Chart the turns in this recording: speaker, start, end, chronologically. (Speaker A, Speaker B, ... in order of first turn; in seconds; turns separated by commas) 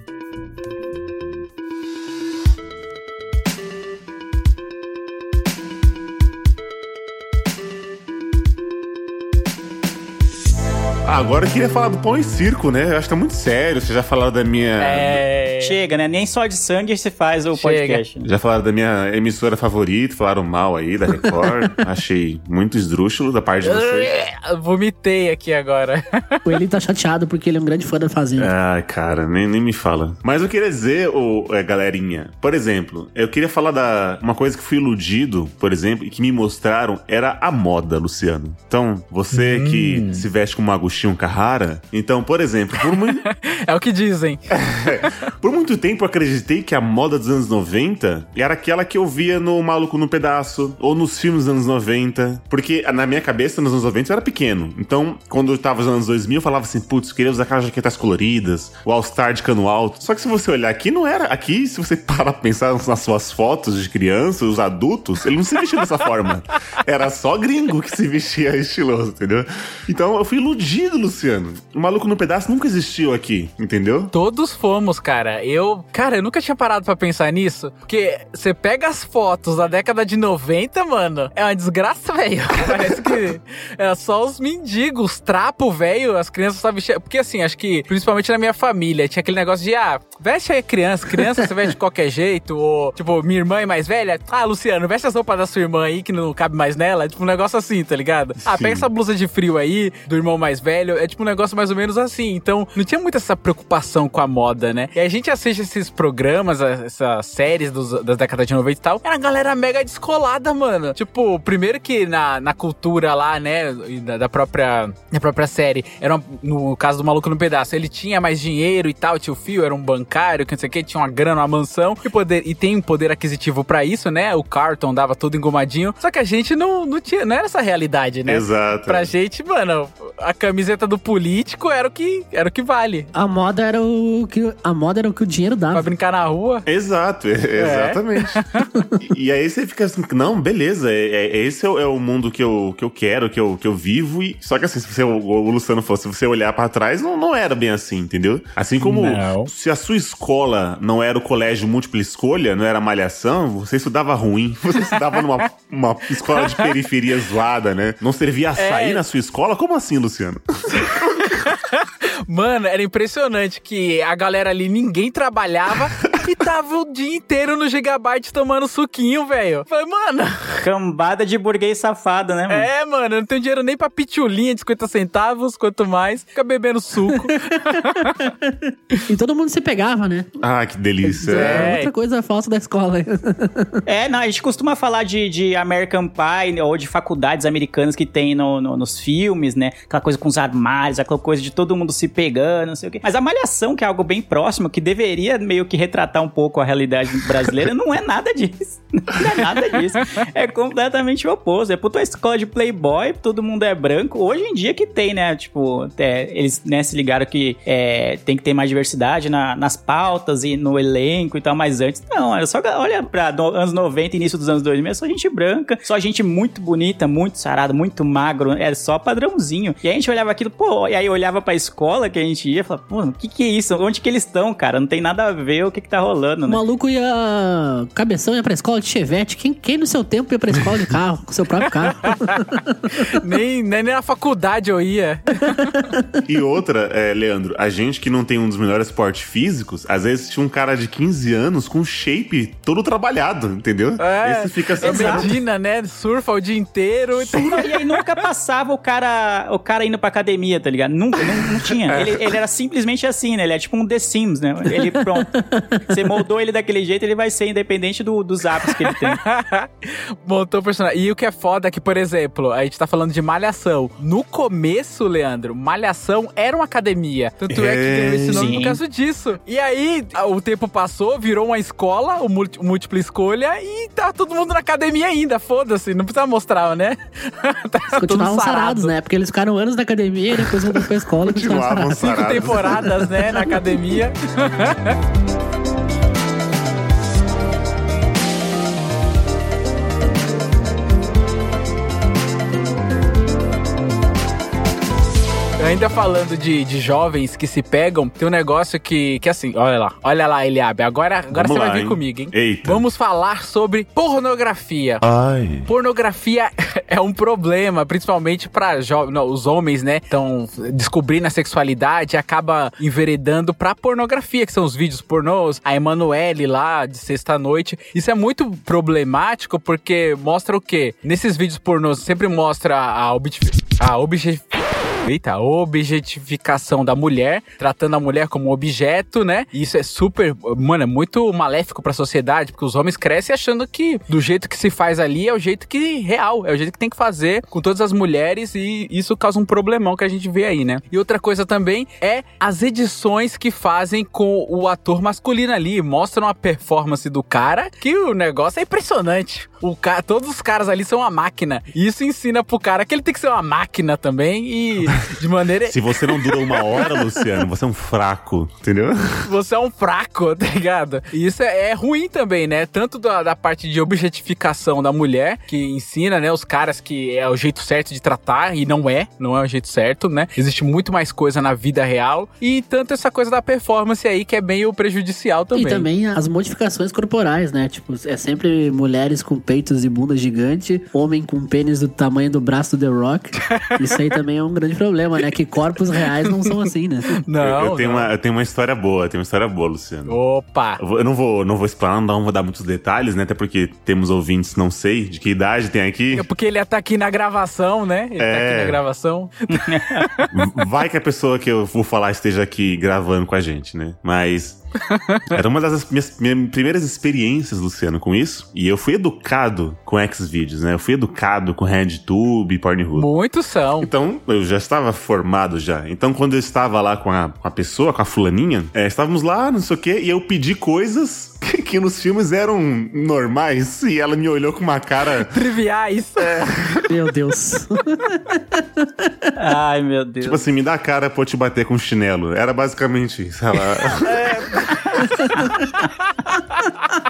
Speaker A: 11.1-15.2, Speaker B: 14.8-15.8, Speaker C: 15.6-18.3, Speaker B: 17.5-18.0, Speaker A: 18.2-24.1, Speaker B: 23.6-26.4, Speaker D: 26.4-28.5, Speaker A: 28.4-43.2, Speaker B: 39.3-40.2, Speaker B: 43.0-44.5, Speaker A: 44.5-74.1, Speaker B: 74.1-133.1, Speaker A: 82.7-83.1, Speaker A: 98.4-98.9, Speaker A: 128.2-129.1, Speaker D: 133.1-135.9, Speaker B: 135.7-136.7, Speaker A: 136.7-138.4, Speaker B: 137.6-138.7, Speaker A: 139.0-161.3, Speaker B: 148.8-149.5, Speaker B: 156.3-156.7, Speaker B: 158.6-159.0, Speaker B: 161.4-170.6, Speaker C: 170.6-172.7, Speaker B: 172.5-178.3, Speaker D: 177.7-180.3, Speaker A: 180.4-181.7, Speaker D: 181.0-183.8, Speaker B: 181.3-181.9, Speaker C: 183.8-226.6, Speaker D: 226.4-233.0, Speaker B: 232.1-232.4, Speaker B: 233.0-235.8, Speaker A: 236.3-245.4, Speaker B: 244.0-247.7, Speaker C: 244.8-245.3, Speaker C: 247.3-259.2, Speaker D: 254.7-256.0, Speaker B: 258.9-278.9, Speaker A: 267.5-268.6, Speaker C: 268.3-268.8, Speaker D: 277.9-282.7, Speaker A: 281.2-282.9, Speaker B: 281.9-285.0, Speaker B: 295.6-305.0, Speaker A: 301.3-302.8, Speaker A: 305.0-305.7, Speaker B: 305.6-324.5, Speaker B: 325.0-357.2, Speaker A: 355.7-359.3, Speaker B: 359.2-375.9, Speaker D: 375.5-387.2, Speaker B: 386.3-386.6, Speaker B: 387.2-388.1, Speaker A: 387.4-390.2, Speaker B: 390.1-390.8, Speaker A: 390.8-396.2, Speaker B: 396.1-400.3, Speaker A: 398.2-398.8, Speaker C: 399.5-400.1, Speaker A: 400.3-404.6, Speaker B: 404.9-405.2, Speaker A: 405.3-413.1, Speaker B: 412.9-413.9, Speaker A: 413.8-425.3, Speaker B: 425.3-426.8, Speaker D: 426.9-429.3, Speaker C: 429.4-430.4, Speaker A: 430.2-434.2, Speaker B: 434.0-436.7